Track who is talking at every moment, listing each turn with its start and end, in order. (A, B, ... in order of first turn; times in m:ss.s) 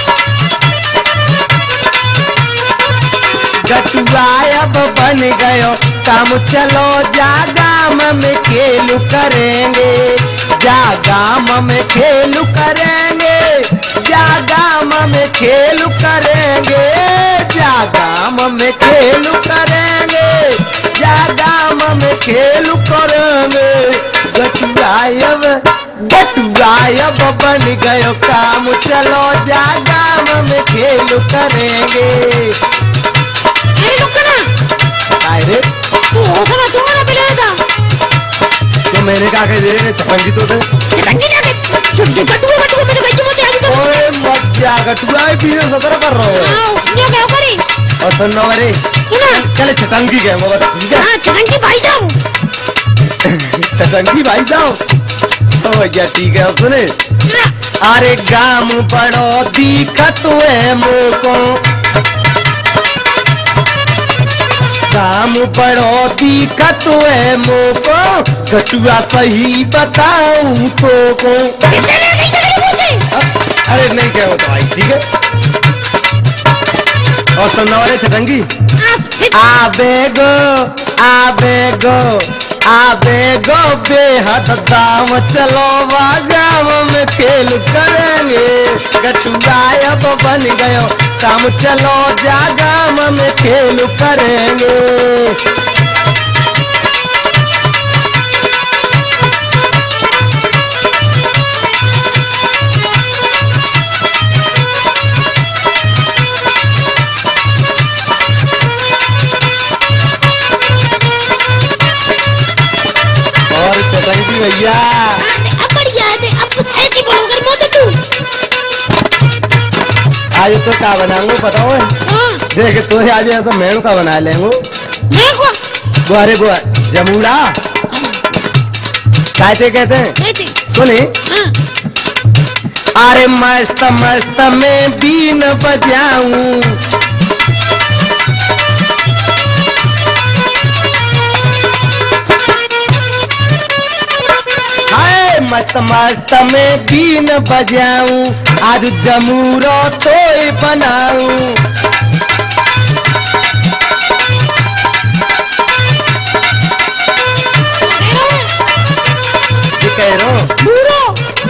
0:03.6-0:32.6 A
0:33.8-0:34.5 B
0:35.2-0:35.7 A
0:36.1-0:37.6 B
0:38.9-0:40.7 A
0:40.9-0:44.0 B
0:43.7-0:46.6 A
0:46.3-0:47.6 B
0:48.0-0:51.1 A
0:49.1-0:49.4 B
0:51.0-0:52.2 B
0:53.2-0:54.8 A
0:55.6-0:56.9 A
0:57.3-0:57.5 B
0:57.8-1:01.6 A
1:04.9-1:11.6 A
1:11.7-1:13.0 B
1:13.1-1:15.0 A
1:17.4-1:18.5 A
1:18.8-1:19.4 B
1:19.3-1:35.4 A
1:53.5-1:55.2 A
1:55.2-1:58.0 B
2:00.4-2:01.9 A
2:02.0-2:02.4 B
2:02.5-2:04.6 A
2:05.1-2:05.6 B
2:06.0-2:07.6 A
2:07.9-2:08.2 B
2:09.4-2:10.2 A
2:10.2-2:10.6 B
2:10.7-2:11.2 A
2:11.3-2:11.5 B
2:13.0-2:16.8 A
2:24.9-2:31.6 A
2:37.8-2:38.5 B
2:39.7-2:40.5 A
2:40.6-2:41.2 B